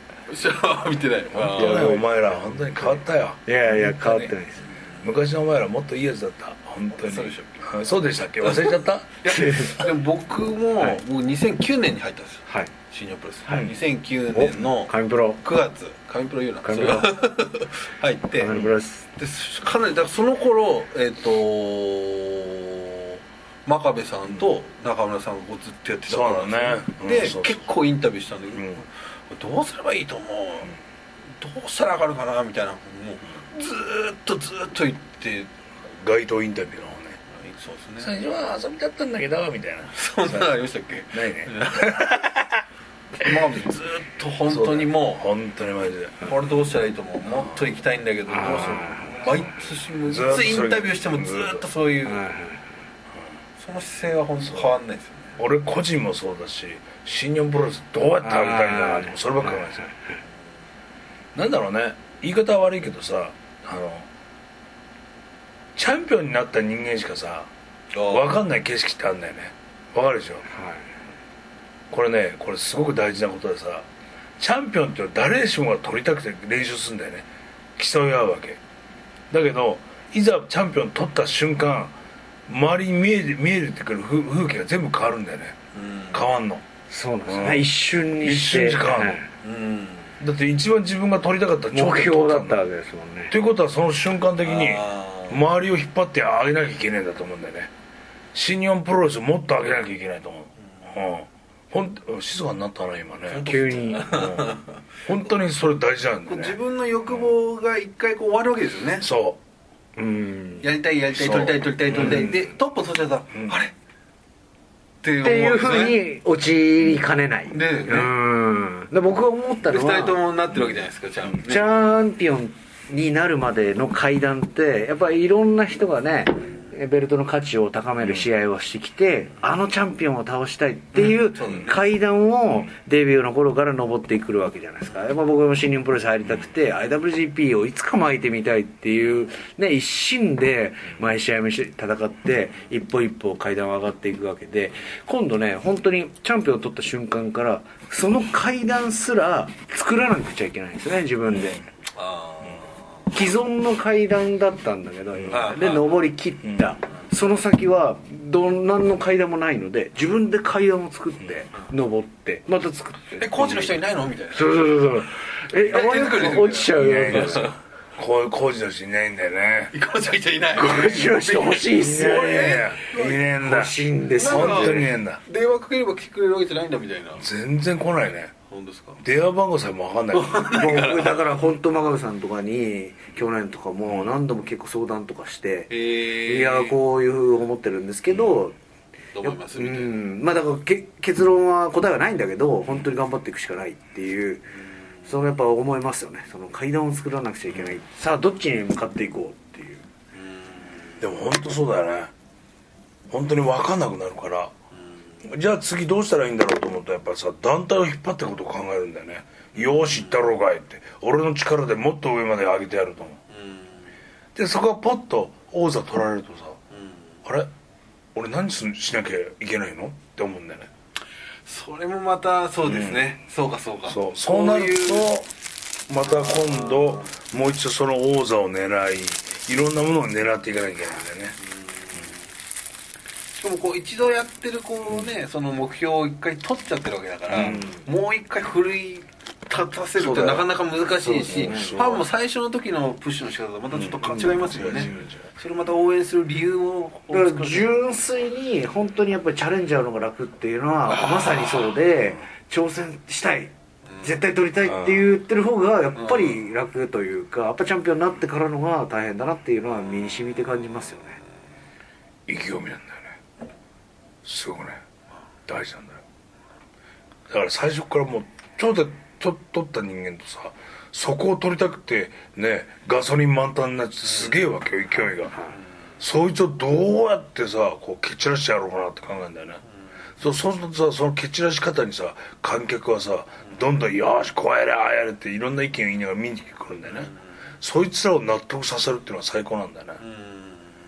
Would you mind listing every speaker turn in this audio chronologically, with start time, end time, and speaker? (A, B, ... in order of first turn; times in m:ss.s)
0:00.3-0:02.0 A
0:01.3-0:04.3 B
0:01.5-0:02.2 C
0:03.4-0:04.7 C
0:04.9-0:09.2 B
0:07.0-0:07.7 A
0:08.4-0:30.7 A
0:09.3-0:09.8 C
0:14.3-0:15.4 C
0:16.6-0:17.2 C
0:18.4-0:19.1 C
0:26.1-0:27.6 B
0:28.6-0:28.8 B
0:31.4-0:35.5 A
0:36.0-0:37.2 B
0:37.3-0:38.1 A
0:38.0-0:40.5 B
0:39.9-0:42.2 A
0:41.1-0:42.6 B
0:43.2-0:45.2 A
0:44.5-0:46.3 B
0:46.2-0:52.2 A
0:48.3-0:49.3 C
0:50.0-0:51.6 B
0:52.0-0:52.6 C
0:53.6-0:55.4 A
0:55.4-0:59.9 B
0:58.2-0:59.8 C
1:01.3-1:04.1 B
1:05.8-1:07.5 B
1:07.9-1:08.4 A
1:08.1-1:10.4 B
1:10.5-1:10.8 C
1:11.9-1:13.8 B
1:14.4-1:18.6 B
1:19.3-1:22.0 B
1:22.5-1:25.6 B
1:25.7-1:26.2 A
1:26.1-1:26.6 B
1:26.9-1:29.3 C
1:27.2-1:29.2 B
1:29.4-1:30.1 A
1:30.2-1:32.6 B
1:31.7-1:33.3 C
1:33.3-1:37.7 B
1:34.4-1:35.4 A
1:38.3-1:43.5 B
1:43.3-1:44.7 A
1:43.4-1:44.3 C
1:44.0-1:46.6 B
1:46.3-1:49.1 A
1:49.0-1:49.4 B
1:50.0-1:50.6 C
1:50.6-1:53.7 A
1:51.1-1:52.5 B
1:55.0-1:56.0 A
1:55.2-2:00.2 C
1:57.5-1:58.1 A
1:59.6-2:01.8 A
2:01.4-2:31.6 C
2:11.0-2:11.7 A
2:31.9-2:32.8 A
2:33.1-2:43.8 C
2:35.1-2:35.4 B
2:35.3-2:36.1 A
2:36.4-2:36.7 B
2:43.2-2:44.8 A
2:44.3-2:47.5 C
2:45.6-2:47.5 A
2:46.7-2:49.7 B
2:49.7-2:53.2 A
2:50.5-2:52.8 C
2:52.0-2:55.2 B
2:53.4-2:54.9 C
2:54.2-2:57.2 A
2:57.2-2:58.3 B
2:58.5-2:59.0 A
2:59.0-3:00.6 B
3:00.1-3:01.3 A
3:00.4-3:08.5 C
3:05.7-3:06.8 A
3:09.1-3:10.0 A
3:09.2-3:14.5 C
3:15.0-3:19.8 C
3:20.1-3:21.0 A
3:21.0-3:22.1 B
3:23.1-3:24.5 B
3:25.2-3:33.2 B
3:29.6-3:30.2 A
3:33.3-3:33.9 A
3:34.3-3:36.6 B
3:36.7-3:37.1 A
3:38.1-3:40.7 B
3:41.4-3:45.1 A
3:42.6-3:43.0 B
3:43.9-3:45.3 B
3:45.9-3:51.4 B
3:46.0-3:47.1 A
3:51.4-3:52.2 A
3:53.3-4:07.7 A
3:57.3-3:57.7 B
3:57.4-3:57.8 C
4:00.0-4:00.5 B
4:01.0-4:01.8 C
4:01.2-4:02.0 B
4:03.7-4:05.3 B
4:07.1-4:21.2 C
4:10.9-4:11.8 A
4:14.6-4:15.0 B
4:16.0-4:16.4 A
4:22.3-4:23.2 B
4:24.2-4:24.8 B
4:25.5-4:26.0 B
4:27.3-4:35.4 B
4:34.1-4:34.4 A
4:36.0-4:39.6 B
4:40.2-4:47.1 B
4:47.6-4:50.0 B
4:50.0-4:50.7 A